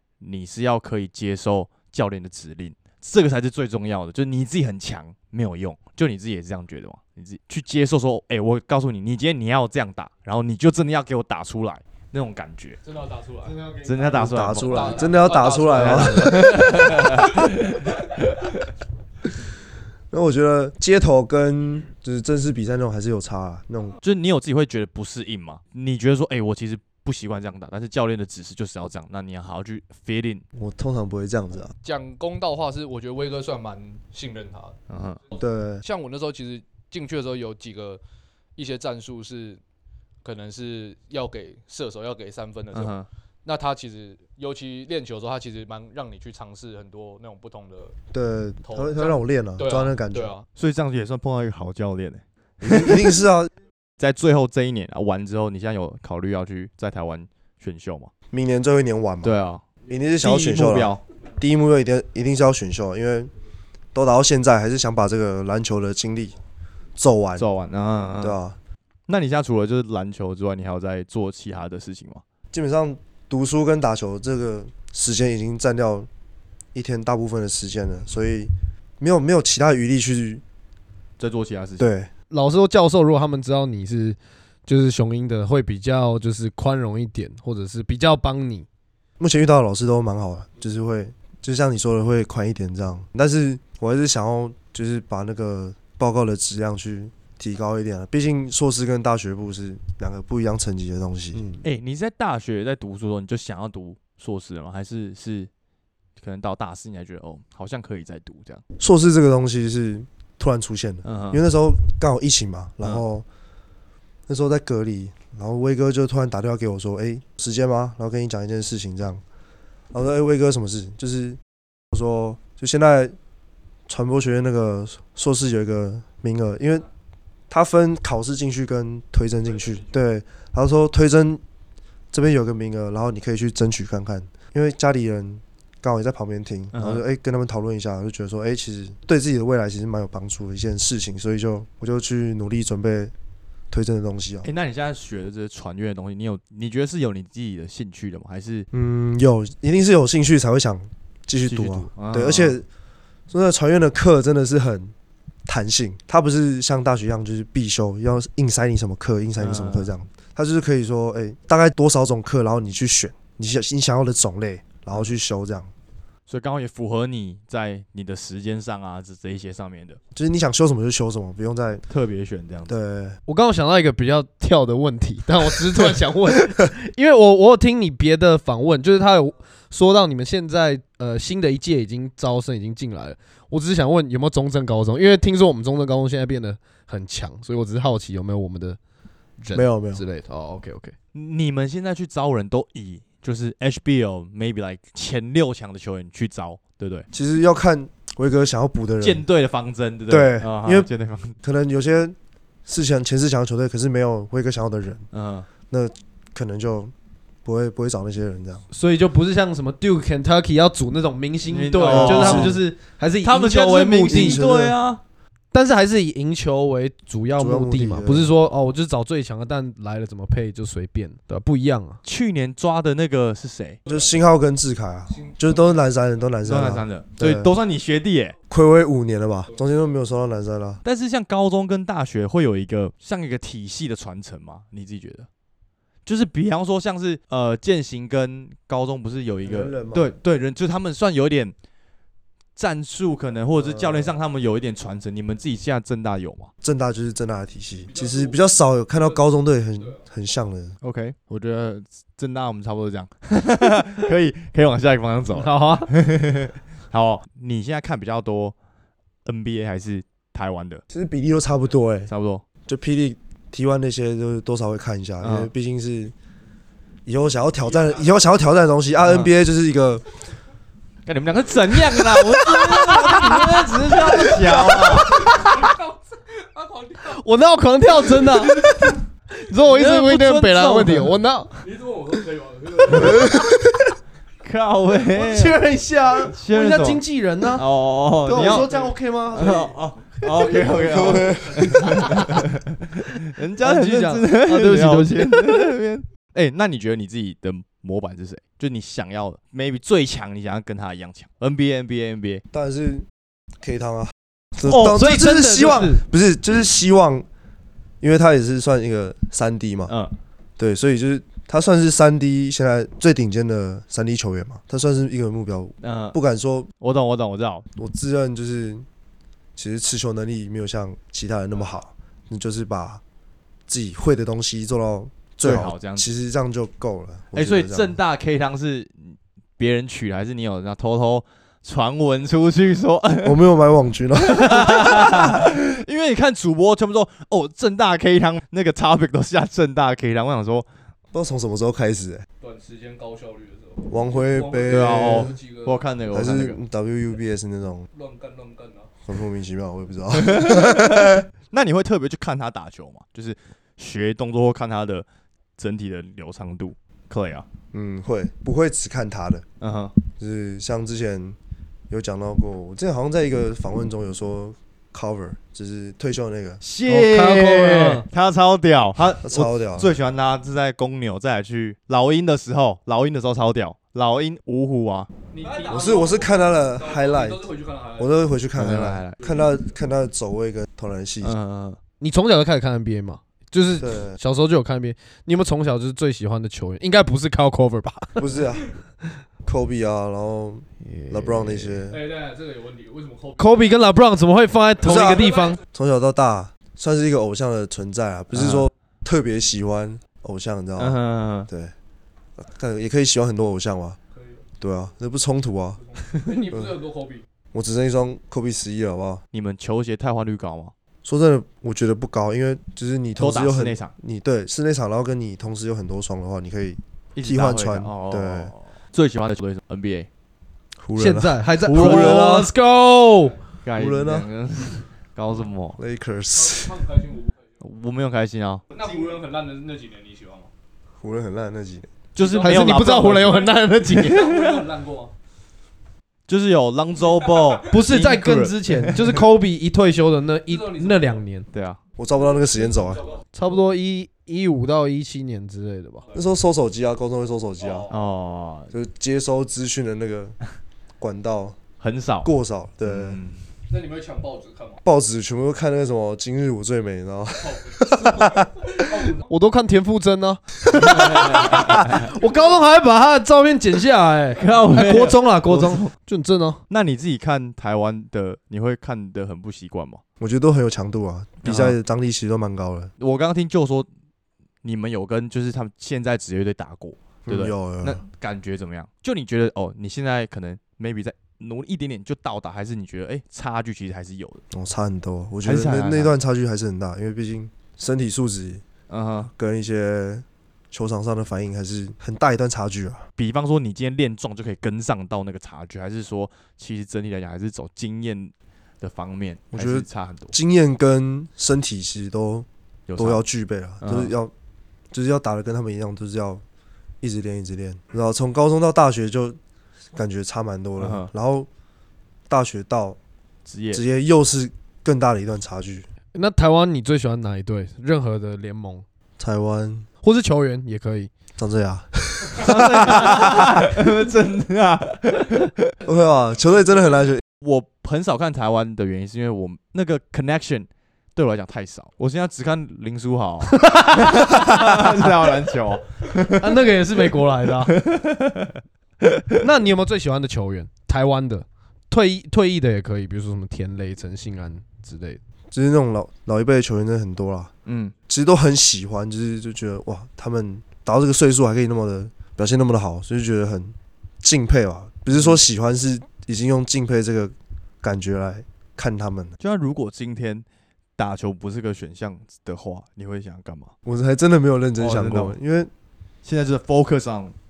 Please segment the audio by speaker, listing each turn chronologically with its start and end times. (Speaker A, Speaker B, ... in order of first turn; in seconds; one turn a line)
Speaker A: 0.2-12.8
Speaker B: 12.8-13.7
Speaker A: 13.8-18.5
Speaker C: 14.1-16.7
Speaker B: 14.7-17.5
Speaker C: 20.1-24.0
Speaker A: 24.0-30.4
Speaker C: 30.5-31.7
Speaker B: 31.8-34.8
Speaker A: 34.9-35.2
Speaker C: 35.3-35.8
Speaker B: 35.8-38.0
Speaker B: 38.5-39.6
Speaker B: 40.2-48.0
Speaker A: 42.7-43.1
Speaker C: 48.1-50.3
Speaker B: 48.6-50.5
Speaker A: 50.5-53.2
Speaker C: 52.6-53.5
Speaker A: 54.0-58.1
Speaker C: 58.3-63.3
Speaker A: 59.2-59.6
Speaker A: 60.2-61.0
Speaker C: 63.9-66.4
Speaker C: 67.0-67.5
Speaker A: 67.4-68.4
Speaker C: 68.2-68.6
Speaker A: 69.1-72.2
Speaker C: 72.5-76.1
Speaker C: 76.7-80.4
Speaker A: 81.2-81.9
Speaker C: 81.8-82.1
Speaker D: 82.3-88.7
Speaker C: 89.2-101.4
Speaker A: 101.6-105.5
Speaker A: 106.2-108.6
Speaker C: 108.8-113.2
Speaker A: 111.0-111.4
Speaker C: 114.3-119.2
Speaker C: 119.9-121.4
Speaker C: 121.9-123.2
Speaker C: 123.9-126.8
Speaker C: 127.5-131.4
Speaker C: 132.1-143.1
Speaker A: 136.7-137.0
Speaker C: 143.7-144.5
Speaker A: 144.4-148.7
Speaker C: 148.7-152.7
Speaker A: 151.5-152.6
Speaker C: 153.3-154.9
Speaker C: 155.4-165.7
Speaker A: 159.4-159.9
Speaker A: 166.3-170.0
Speaker C: 170.1-171.8
Speaker A: 171.9-172.7
Speaker C: 172.7-173.2
Speaker D: 173.3-188.8
Speaker D: 189.4-190.9
Speaker C: 189.5-190.0
Speaker A: 191.1-197.1
Speaker C: 197.1-199.2
Speaker A: 199.0-201.3
Speaker C: 200.1-200.9
Speaker C: 201.4-202.1
Speaker C: 202.7-205.0
Speaker A: 205.1-205.5
Speaker C: 205.7-206.9
Speaker C: 207.4-208.6
Speaker D: 208.7-214.4
Speaker A: 211.5-212.7
Speaker C: 211.8-212.6
Speaker A: 213.2-215.0
Speaker C: 214.1-214.8
Speaker D: 215.5-222.0
Speaker C: 217.4-218.3
Speaker A: 222.0-223.8
Speaker C: 223.9-227.5
Speaker B: 225.1-225.8
Speaker A: 226.4-228.3
Speaker C: 228.5-230.8
Speaker A: 230.8-235.3
Speaker A: 236.1-241.5
Speaker C: 239.4-240.1
Speaker A: 242.6-246.5
Speaker C: 243.6-244.1
Speaker C: 246.6-250.8
Speaker B: 247.9-248.4
Speaker B: 248.9-249.2
Speaker A: 250.8-258.5
Speaker D: 255.3-255.9
Speaker A: 259.2-260.8
Speaker C: 260.9-262.1
Speaker A: 262.1-262.4
Speaker C: 262.6-266.1
Speaker A: 265.2-265.5
Speaker C: 267.1-270.0
Speaker B: 267.8-268.0
Speaker A: 269.0-269.3
Speaker A: 271.1-275.3
Speaker D: 272.0-275.7
Speaker B: 274.9-277.2
Speaker D: 277.0-281.6
Speaker A: 278.5-278.8
Speaker A: 279.6-281.1
Speaker B: 281.6-283.4
Speaker C: 282.9-283.8
Speaker D: 283.0-283.4
Speaker A: 284.4-285.6
Speaker D: 285.1-287.6
Speaker A: 286.3-287.0
Speaker A: 287.5-288.8
Speaker D: 288.2-289.7
Speaker B: 288.3-289.7
Speaker A: 289.3-302.4
Speaker D: 290.2-290.7
Speaker B: 290.3-291.7
Speaker C: 290.8-292.0
Speaker D: 291.7-292.4
Speaker D: 293.6-295.6
Speaker C: 302.5-303.1
Speaker C: 303.6-307.2
Speaker D: 304.7-306.0
Speaker C: 308.0-309.9
Speaker C: 310.6-316.7
Speaker A: 315.8-316.2
Speaker A: 316.8-317.6
Speaker C: 317.8-318.9
Speaker C: 319.6-323.0
Speaker C: 323.7-327.9
Speaker A: 325.4-326.1
Speaker A: 327.3-333.4
Speaker C: 333.2-335.4
Speaker A: 334.1-340.6
Speaker C: 341.1-342.2
Speaker B: 342.4-345.9
Speaker C: 343.9-345.3
Speaker A: 344.6-346.6
Speaker C: 346.1-347.9
Speaker B: 347.9-348.9
Speaker C: 349.1-351.2
Speaker A: 350.1-355.0
Speaker A: 355.6-357.4
Speaker C: 357.7-359.4
Speaker A: 359.6-359.9
Speaker C: 360.1-361.4
Speaker C: 361.9-366.6
Speaker A: 366.6-375.1
Speaker D: 366.9-368.0
Speaker C: 369.2-369.9
Speaker B: 375.3-378.2
Speaker C: 375.7-377.5
Speaker C: 378.0-381.3
Speaker A: 378.6-379.2
Speaker B: 379.2-379.6
Speaker A: 381.2-381.8
Speaker D: 382.0-388.2
Speaker C: 383.8-384.2
Speaker C: 388.1-388.7
Speaker C: 389.4-392.0
Speaker D: 390.8-391.8
Speaker B: 391.9-393.5
Speaker D: 393.4-395.6
Speaker C: 394.8-401.7
Speaker A: 398.3-398.7
Speaker A: 400.8-401.5
Speaker C: 402.4-404.0
Speaker B: 404.1-404.4
Speaker C: 404.6-406.7
Speaker B: 405.8-407.2
Speaker C: 407.5-409.2
Speaker A: 409.3-410.7
Speaker C: 411.0-418.5
Speaker A: 413.2-413.9
Speaker A: 417.1-420.1
Speaker C: 420.8-422.5
Speaker D: 420.9-423.4
Speaker A: 421.6-422.5
Speaker A: 423.6-425.8
Speaker C: 423.7-424.3
Speaker C: 425.8-426.9
Speaker B: 426.3-427.3
Speaker A: 427.6-428.6
Speaker B: 428.7-430.5
Speaker C: 431.0-431.9
Speaker A: 432.1-433.5
Speaker B: 432.2-435.1
Speaker D: 432.4-434.6
Speaker A: 436.3-439.2
Speaker D: 437.7-441.5
Speaker B: 440.5-441.2
Speaker A: 441.5-441.8
Speaker C: 442.0-443.0
Speaker B: 442.5-443.2
Speaker D: 443.3-446.0
Speaker C: 446.1-447.9
Speaker B: 447.6-448.0
Speaker A: 447.9-448.7
Speaker C: 448.7-450.4
Speaker C: 451.0-451.6
Speaker A: 451.8-452.3
Speaker C: 452.2-453.2
Speaker A: 452.8-453.4
Speaker B: 453.7-454.8
Speaker C: 454.8-459.1
Speaker B: 457.4-459.3
Speaker D: 459.2-466.6
Speaker A: 460.8-462.0
Speaker A: 464.4-465.9
Speaker A: 466.7-470.0
Speaker C: 470.2-472.9
Speaker A: 471.4-471.8
Speaker A: 473.0-473.9
Speaker A: 474.6-484.4
Speaker C: 477.2-478.0
Speaker C: 484.5-488.6
Speaker A: 485.4-486.1
Speaker A: 488.9-489.3
Speaker C: 489.4-493.1
Speaker A: 493.2-500.3
Speaker C: 499.5-504.3
Speaker A: 502.9-503.2
Speaker A: 503.8-504.1
Speaker C: 504.9-506.4
Speaker C: 507.0-509.4
Speaker C: 509.9-511.5
Speaker A: 510.8-511.1
Speaker C: 512.3-513.0
Speaker A: 513.5-513.8
Speaker C: 513.7-515.9
Speaker D: 516.1-518.8
Speaker C: 519.2-519.9
Speaker D: 520.0-521.1
Speaker C: 521.4-523.7
Speaker A: 522.4-525.7
Speaker C: 525.8-527.2
Speaker A: 527.4-536.6
Speaker D: 533.5-535.1
Speaker D: 536.3-537.7
Speaker A: 537.6-539.4
Speaker D: 539.4-545.2
Speaker C: 545.5-547.5
Speaker A: 547.6-547.9
Speaker C: 548.1-559.3
Speaker A: 555.1-555.4
Speaker A: 559.4-560.5
Speaker A: 561.0-563.7
Speaker C: 563.8-565.7
Speaker A: 564.8-565.3
Speaker A: 566.2-567.3